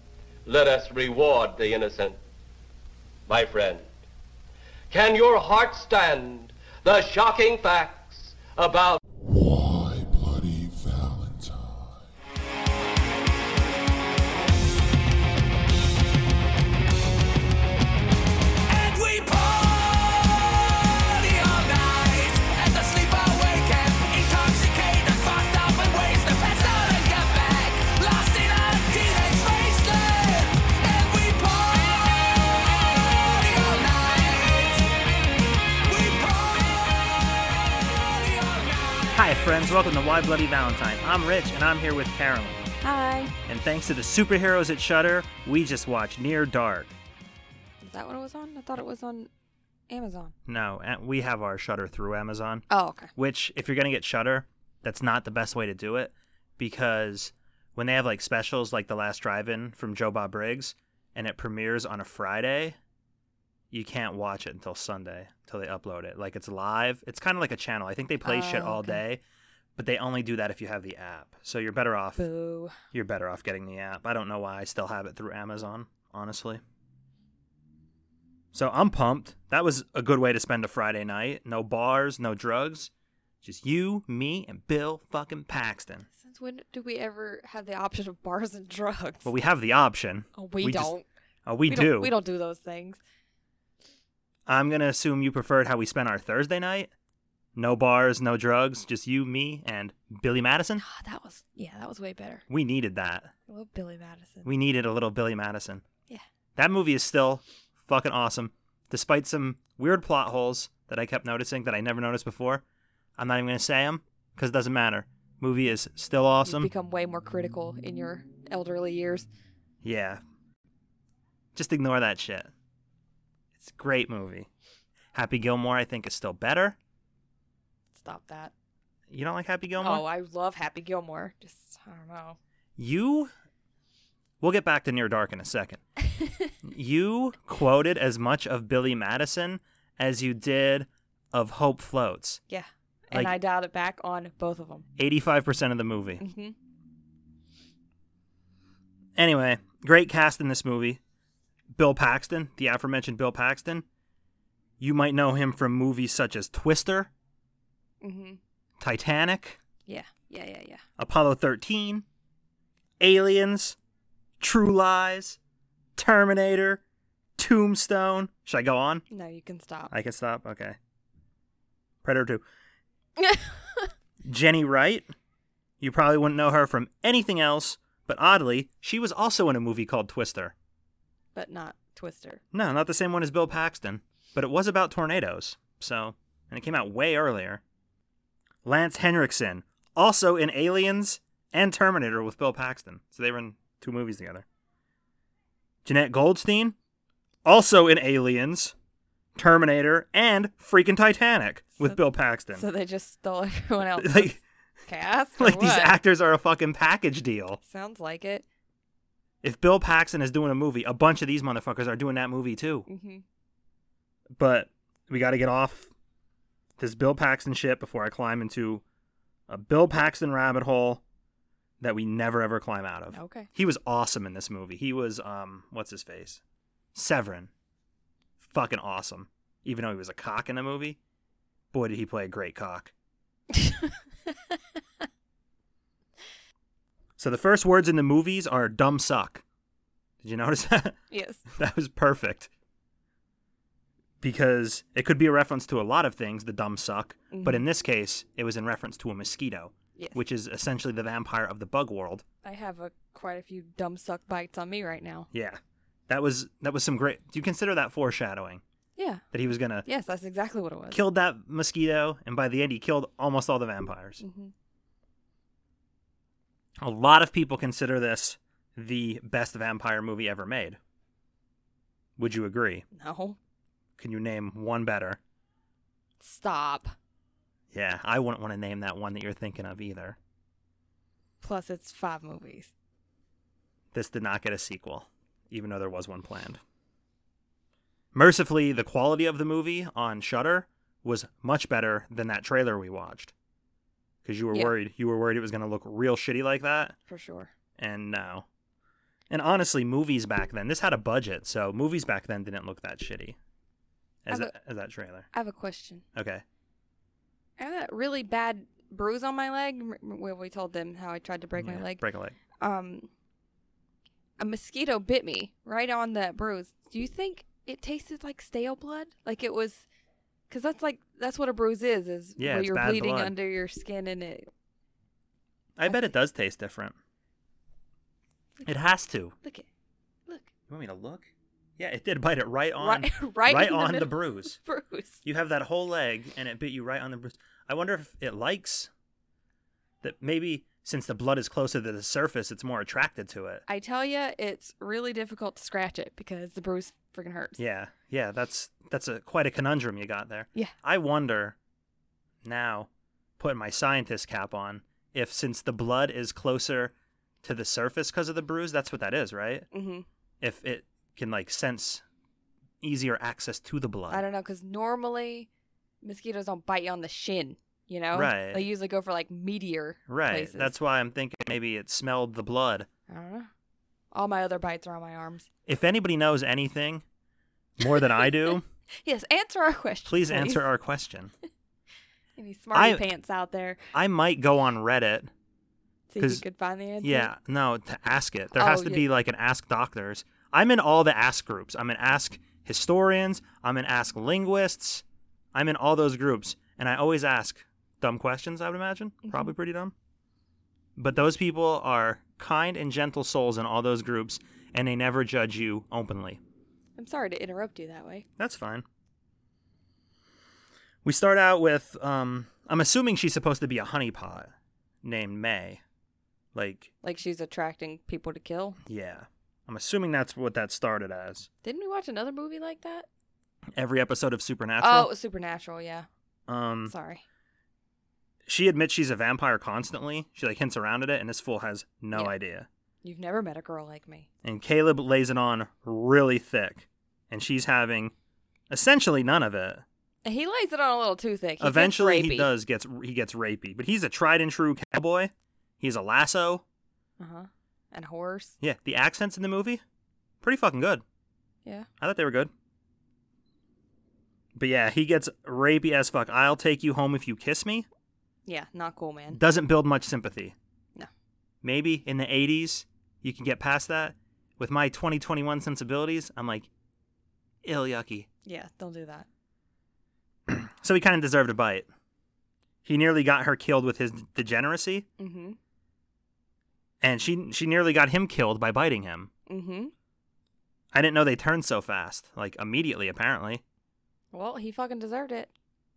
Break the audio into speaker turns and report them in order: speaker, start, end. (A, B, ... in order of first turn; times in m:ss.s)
0:00.4-0:02.2 A
0:03.3-0:03.9 A
0:04.9-0:09.0 A
0:09.2-0:12.1 B
0:18.7-0:34.9 C
0:35.5-0:39.6 C
0:39.1-0:42.7 D
0:42.8-0:43.3 E
0:43.5-0:46.9 D
0:47.8-0:49.3 E
0:49.9-0:50.3 E
0:50.5-1:02.8 D
0:52.7-0:53.1 E
1:03.7-1:09.2 D
1:08.2-1:09.0 E
1:09.8-1:12.3 D
1:12.2-1:12.7 E
1:12.9-1:16.6 D
1:18.5-1:22.9 D
1:23.4-1:26.1 D
1:26.1-1:29.3 E
1:29.2-1:30.9 D
1:30.4-1:31.0 E
1:31.4-1:32.1 D
1:31.7-1:33.0 E
1:34.5-1:36.9 D
1:37.5-1:40.8 D
1:40.8-1:42.4 E
1:42.5-1:43.3 D
1:43.5-1:44.5 E
1:44.4-1:45.8 D
1:46.6-1:52.6 D
1:53.2-1:56.7 D
1:56.4-1:59.3 E
1:59.8-2:00.2 D
2:01.5-2:02.5 D
2:03.6-2:04.5 D
2:05.1-2:06.8 D
2:07.9-2:08.5 E
2:09.1-2:10.0 D
2:09.8-2:12.4 E
2:12.8-2:13.3 D
2:14.4-2:15.8 D
2:16.6-2:22.4 D
2:22.5-2:24.8 E
2:25.0-2:26.2 D
2:26.2-2:26.5 E
2:29.2-2:31.0 D
2:31.7-2:33.8 D
2:34.8-2:37.1 D
2:38.0-2:38.4 E
2:38.8-2:39.6 D
2:39.8-2:40.8 E
2:41.0-2:42.0 D
2:43.0-2:43.8 D
2:44.4-2:45.4 D
2:46.0-2:46.8 D
2:47.4-2:49.0 D
2:49.1-2:49.9 E
2:49.9-2:50.8 D
2:52.0-2:52.4 D
2:53.2-2:53.9 E
2:54.2-2:55.1 D
2:55.8-3:00.5 D
3:01.3-3:02.4 E
3:02.5-3:07.6 D
3:08.6-3:14.4 D
3:15.8-3:16.8 D
3:17.4-3:18.7 D
3:19.4-3:22.6 D
3:22.6-3:25.9 E
3:24.0-3:24.4 D
3:25.4-3:27.6 D
3:27.6-3:28.4 E
3:29.4-3:32.8 D
3:32.9-3:33.2 E
3:34.4-3:35.9 D
3:36.8-3:38.8 D
3:39.5-3:41.0 D
3:41.8-3:46.4 D
3:43.1-3:43.5 E
3:46.9-3:47.5 D
3:48.4-3:51.0 D
3:51.7-3:52.9 D
3:53.5-3:54.5 E
3:57.2-3:59.4 D
4:00.2-4:01.0 D
4:01.1-4:01.4 E
4:01.5-4:02.5 D
4:04.2-4:12.2 D
4:07.3-4:07.6 E
4:10.0-4:10.2 E
4:12.4-4:15.3 E
4:15.3-4:18.6 D
4:19.0-4:19.2 E
4:19.3-4:19.8 D
4:19.8-4:21.0 E
4:20.9-4:24.2 D
4:24.2-4:24.5 E
4:26.8-4:30.8 D
4:32.2-4:32.8 D
4:32.9-4:33.4 E
4:34.0-4:35.2 D
4:36.2-4:37.0 E
4:37.7-4:40.2 D
4:41.4-4:42.7 E
4:43.9-4:46.6 D
4:48.1-4:53.3 D
4:54.2-4:57.0 D
4:57.1-4:57.5 E
4:57.8-4:58.4 D
4:59.3-5:03.4 D
5:04.2-5:05.3 D
5:04.3-5:04.5 E
5:05.3-5:06.0 E
5:06.1-5:06.4 D
5:07.6-5:12.0 E
5:11.6-5:12.4 D
5:12.6-5:13.1 E
5:14.4-5:19.8 E
5:20.5-5:24.5 E
5:22.4-5:23.3 D
5:25.8-5:27.0 D
5:28.6-5:29.3 D
5:30.7-5:34.6 D
5:32.8-5:35.2 E
5:35.2-5:38.9 D
5:40.0-5:43.6 D
5:43.7-5:47.6 E
5:47.6-5:51.6 D
5:52.4-5:59.7 D
5:59.7-6:00.0 E
6:00.4-6:02.0 D
6:02.8-6:04.2 D
6:04.1-6:05.5 E
6:06.0-6:10.7 E
6:08.1-6:08.6 D
6:10.1-6:12.9 D
6:13.1-6:13.5 E
6:14.1-6:15.5 E
6:15.6-6:17.0 D
6:17.8-6:18.6 D
6:19.0-6:20.6 E
6:20.0-6:21.3 D
6:22.4-6:23.8 E
6:22.7-6:23.0 D
6:23.9-6:25.3 D
6:26.1-6:27.3 E
6:26.2-6:26.4 D
6:27.0-6:39.9 D
6:28.5-6:29.1 E
6:39.2-6:39.5 E
6:41.0-6:46.4 D
6:47.0-6:48.2 E
6:48.4-6:48.8 D
6:51.0-6:55.8 D
6:56.5-6:56.9 D
6:57.0-6:58.8 E
6:58.8-7:01.5 D
7:01.6-7:03.1 E
7:03.7-7:05.1 D
7:04.8-7:06.1 E
7:06.5-7:06.9 D
7:06.8-7:07.2 E
7:08.5-7:12.7 D
7:13.0-7:14.3 E
7:14.4-7:18.1 D
7:18.7-7:19.8 D
7:20.2-7:22.5 E
7:21.6-7:26.6 D
7:27.2-7:28.5 E
7:28.6-7:29.8 D
7:30.4-7:31.0 D
7:32.0-7:32.5 D
7:34.5-7:37.9 D
7:38.4-7:39.4 E
7:39.3-7:40.5 D
7:41.6-7:46.7 D
7:47.6-7:48.3 D
7:48.4-7:49.3 E
7:50.5-7:51.9 D
7:52.8-7:55.0 D
7:55.2-7:55.6 E
7:57.0-7:59.3 D
7:59.5-7:59.9 E
8:00.9-8:03.6 D
8:04.3-8:05.5 E